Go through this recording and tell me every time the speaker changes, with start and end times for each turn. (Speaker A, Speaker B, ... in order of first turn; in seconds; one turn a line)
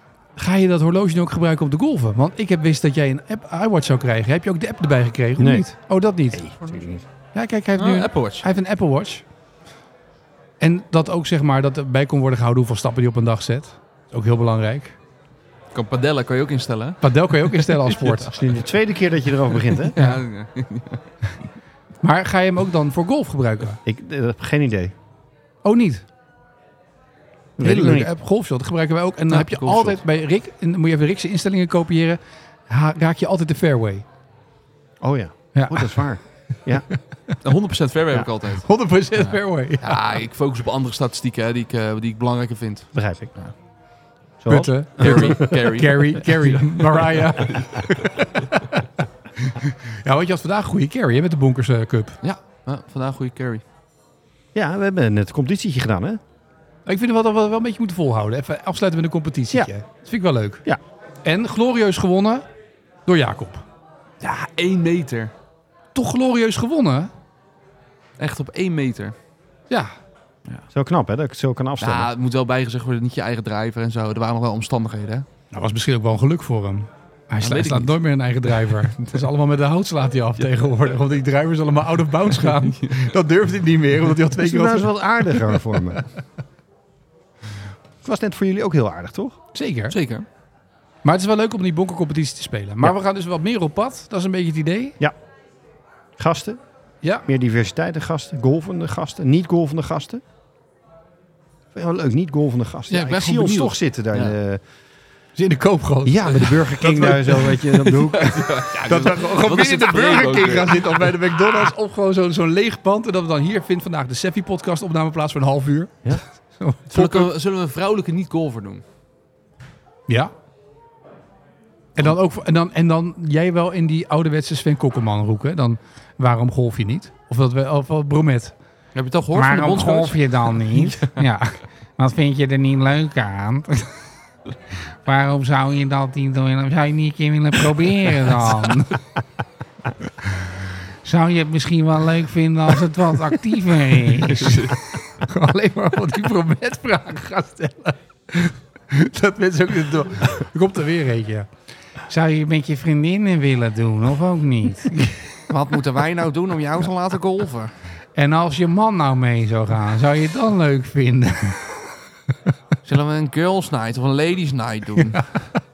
Speaker A: 0.4-6.5
Speaker B: 5.4-5.7
Speaker B: 6.3-7.0
Speaker A: 7.3-9.2
Speaker C: 7.8-8.5
Speaker A: 10.6-15.0
Speaker C: 15.7-18.6
Speaker A: 17.0-18.4
Speaker B: 18.4-20.0
Speaker C: 19.5-21.0
Speaker A: 20.0-20.2
Speaker A: 22.0-23.8
Speaker B: 23.9-24.9
Speaker A: 25.6-26.1
Speaker B: 27.6-28.1
Speaker A: 27.6-34.0
Speaker C: 29.3-30.0
Speaker B: 35.0-36.9
Speaker A: 35.5-36.1
Speaker A: 36.9-37.4
Speaker C: 37.4-43.5
Speaker A: 38.6-40.1
Speaker B: 43.0-43.3
Speaker B: 44.4-45.5
Speaker A: 44.5-52.2
Speaker C: 45.0-47.9
Speaker C: 52.2-53.6
Speaker B: 54.5-56.2
Speaker A: 56.9-60.6
Speaker A: 61.2-62.5
Speaker A: 63.1-63.6
Speaker C: 64.2-65.3
Speaker A: 65.9-67.1
Speaker C: 68.2-69.2
Speaker B: 70.7-72.1
Speaker C: 71.8-75.3
Speaker A: 75.5-86.0
Speaker C: 77.4-78.0
Speaker C: 82.5-83.0
Speaker B: 84.4-86.0
Speaker B: 88.0-89.4
Speaker A: 89.5-90.0
Speaker C: 89.9-90.3
Speaker A: 91.0-95.0
Speaker B: 96.2-96.6
Speaker B: 97.3-100.2
Speaker B: 101.7-104.6
Speaker C: 102.9-104.3
Speaker A: 105.4-107.9
Speaker B: 106.0-108.5
Speaker C: 107.9-111.7
Speaker A: 108.8-117.3
Speaker C: 116.9-118.8
Speaker A: 122.0-128.6
Speaker C: 128.9-131.2
Speaker A: 129.3-134.0
Speaker A: 134.9-139.0
Speaker A: 140.2-151.5
Speaker C: 144.2-144.8
Speaker A: 152.1-155.4
Speaker C: 155.5-157.7
Speaker A: 158.2-162.0
Speaker C: 162.8-165.5